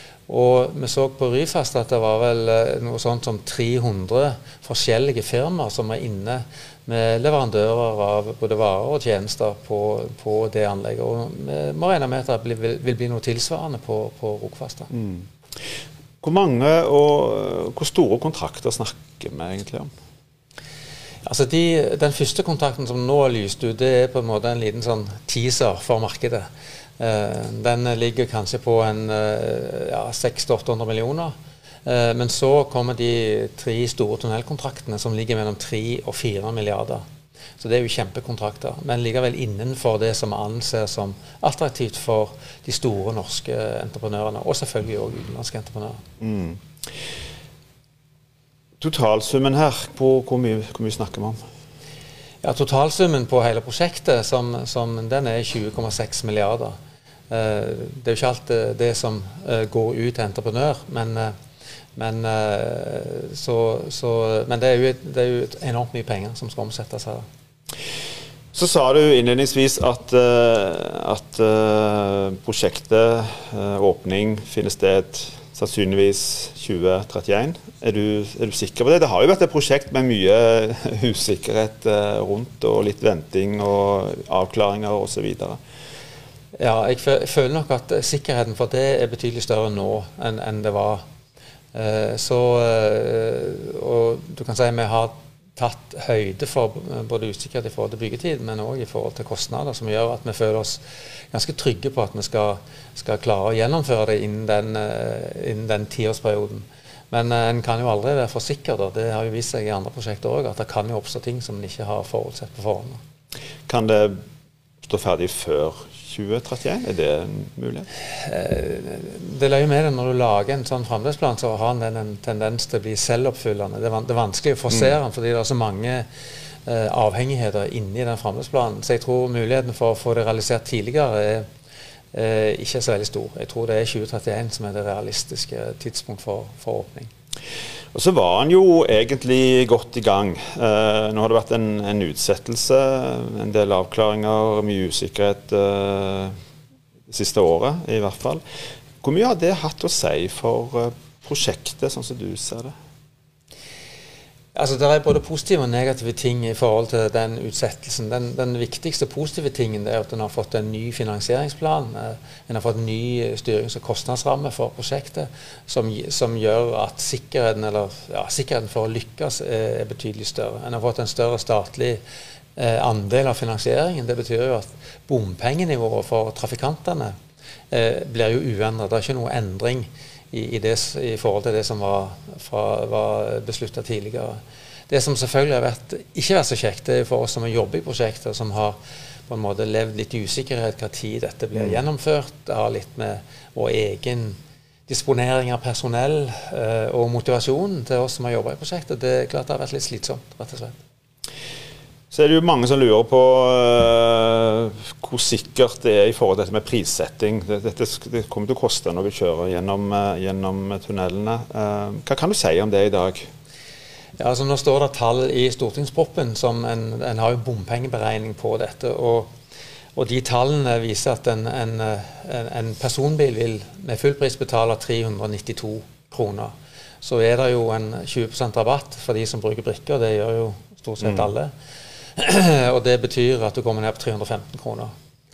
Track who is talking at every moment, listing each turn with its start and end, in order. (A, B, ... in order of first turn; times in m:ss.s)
0:00.3-0:14.9 A
0:14.9-0:15.2 B
0:16.2-0:19.9 B
0:21.2-0:26.5 A
0:27.0-0:37.0 A
0:37.6-0:46.0 A
0:46.2-0:46.6 B
0:48.8-0:51.4 B
0:52.4-0:56.8 A
0:57.3-1:01.3 A
1:02.0-1:07.2 A
1:08.5-1:25.6 B
1:26.6-1:31.0 A
1:31.7-1:53.0 A
1:53.7-1:54.2 B
1:54.8-1:57.9 B
1:58.2-2:06.1 A
2:06.6-2:11.4 A
2:12.1-2:17.1 A
2:17.9-2:26.3 B
2:27.1-2:28.4 B
2:29.0-2:32.7 B
2:34.5-2:52.0 A
2:52.6-2:57.1 A
2:57.7-3:20.8 A
3:22.1-3:33.3 B
3:34.2-3:39.3 A
3:40.0-3:51.5 A
3:52.2-3:54.9 A